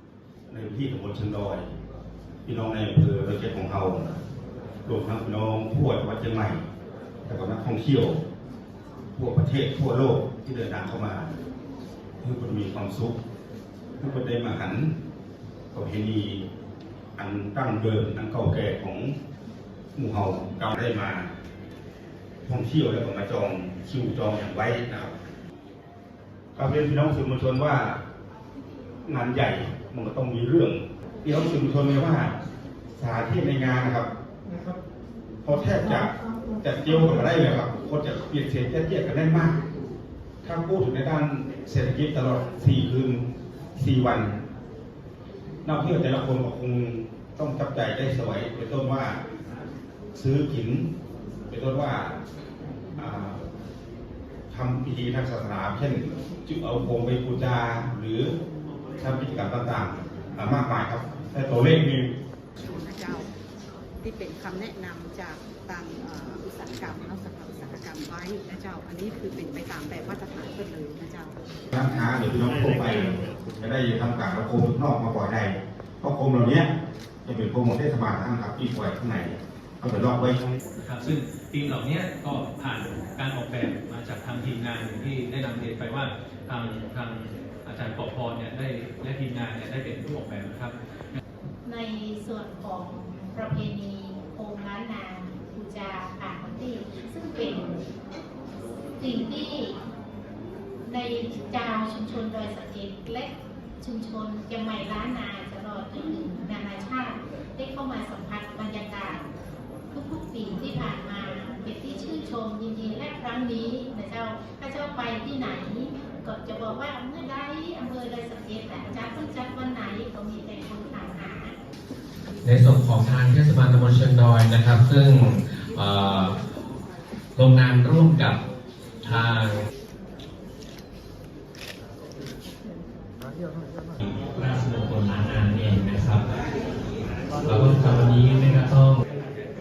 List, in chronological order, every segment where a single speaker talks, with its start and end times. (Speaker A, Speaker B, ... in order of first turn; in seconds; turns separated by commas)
Speaker A: 0.5-1.7, Speaker A: 2.4-4.1, Speaker A: 4.8-6.6, Speaker A: 7.2-8.2, Speaker A: 9.2-11.3, Speaker A: 12.2-13.2, Speaker A: 14.0-14.9, Speaker A: 15.7-16.5, Speaker A: 17.1-19.1, Speaker A: 19.9-21.3, Speaker A: 22.4-25.1, Speaker A: 26.5-28.0, Speaker A: 29.0-32.4, Speaker A: 33.0-34.1, Speaker A: 35.4-39.6, Speaker A: 40.4-44.3, Speaker A: 45.6-49.2, Speaker A: 50.1-50.9, Speaker A: 51.5-52.2, Speaker A: 53.0-53.4, Speaker A: 54.5-58.3, Speaker A: 59.0-62.1, Speaker B: 62.6-63.3, Speaker B: 64.0-71.5, Speaker A: 71.7-76.7, Speaker A: 77.2-80.4, Speaker C: 80.8-90.7, Speaker D: 91.6-97.8, Speaker D: 99.0-99.8, Speaker D: 100.8-109.2, Speaker D: 109.9-121.5, Speaker E: 122.4-126.4, Speaker E: 127.3-128.4, Speaker E: 129.0-129.6, Speaker E: 134.0-136.3, Speaker E: 137.4-139.0